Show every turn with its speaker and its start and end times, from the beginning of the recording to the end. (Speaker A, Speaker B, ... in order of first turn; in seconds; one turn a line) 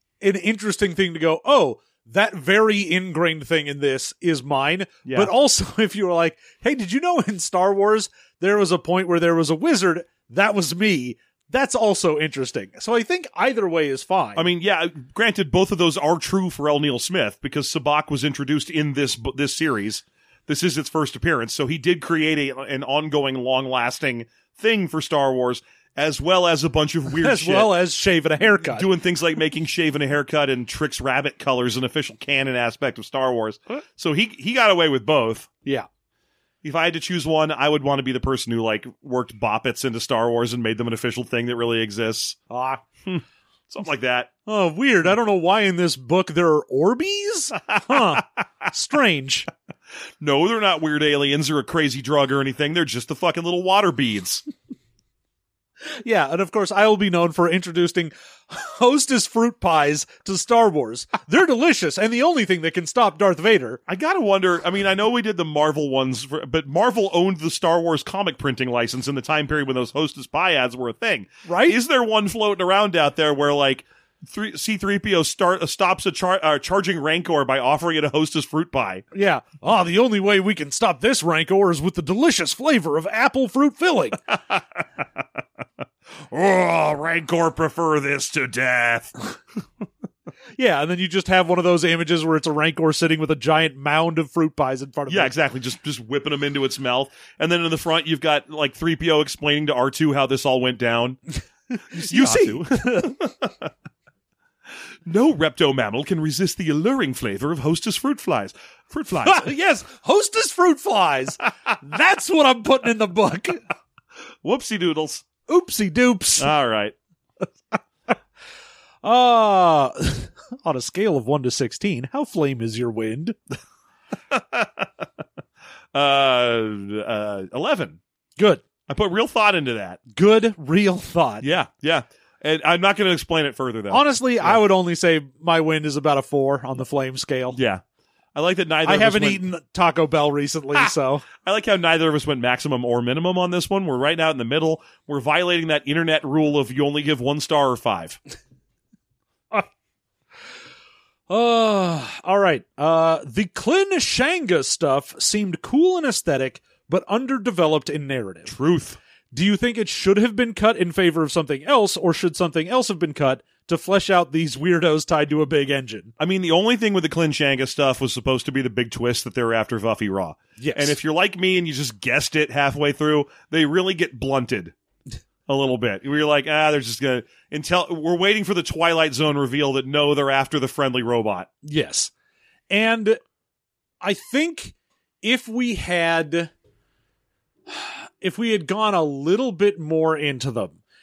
Speaker A: 0.2-14.5
Speaker B: 5.0-5.3
Speaker B: 14.3-27.7
Speaker A: 27.1-28.9
Speaker B: 28.7-35.5
Speaker B: 36.6-42.4
Speaker A: 42.5-42.8
Speaker B: 43.1-44.3
Speaker A: 44.5-49.5
Speaker B: 47.7-48.2
Speaker B: 50.2-54.4
Speaker A: 56.0-63.8
Speaker B: 63.9-79.0
Speaker A: 71.5-71.8
Speaker A: 79.1-84.2
Speaker B: 86.3-89.1
Speaker A: 90.6-95.3
Speaker B: 95.1-101.2
Speaker B: 101.8-103.7
Speaker A: 101.9-103.1
Speaker B: 105.0-109.5
Speaker A: 109.2-113.6
Speaker B: 114.4-115.3
Speaker A: 115.5-116.5
Speaker B: 116.4-117.0
Speaker A: 119.0-123.4
Speaker B: 124.3-124.9
Speaker B: 125.9-128.0
Speaker A: 128.4-128.6
Speaker B: 128.9-130.0
Speaker A: 130.1-131.4
Speaker B: 131.4-134.6
Speaker A: 133.9-137.6
Speaker B: 137.5-137.8
Speaker B: 138.3-139.4
Speaker A: 138.8-141.2
Speaker B: 141.4-148.2
Speaker A: 151.3-158.5
Speaker B: 158.4-159.0
Speaker A: 159.3-166.1
Speaker B: 166.2-174.7
Speaker A: 170.6-171.0
Speaker B: 175.5-181.5
Speaker A: 181.6-182.1
Speaker A: 182.7-183.2
Speaker A: 184.0-186.5
Speaker A: 187.7-190.8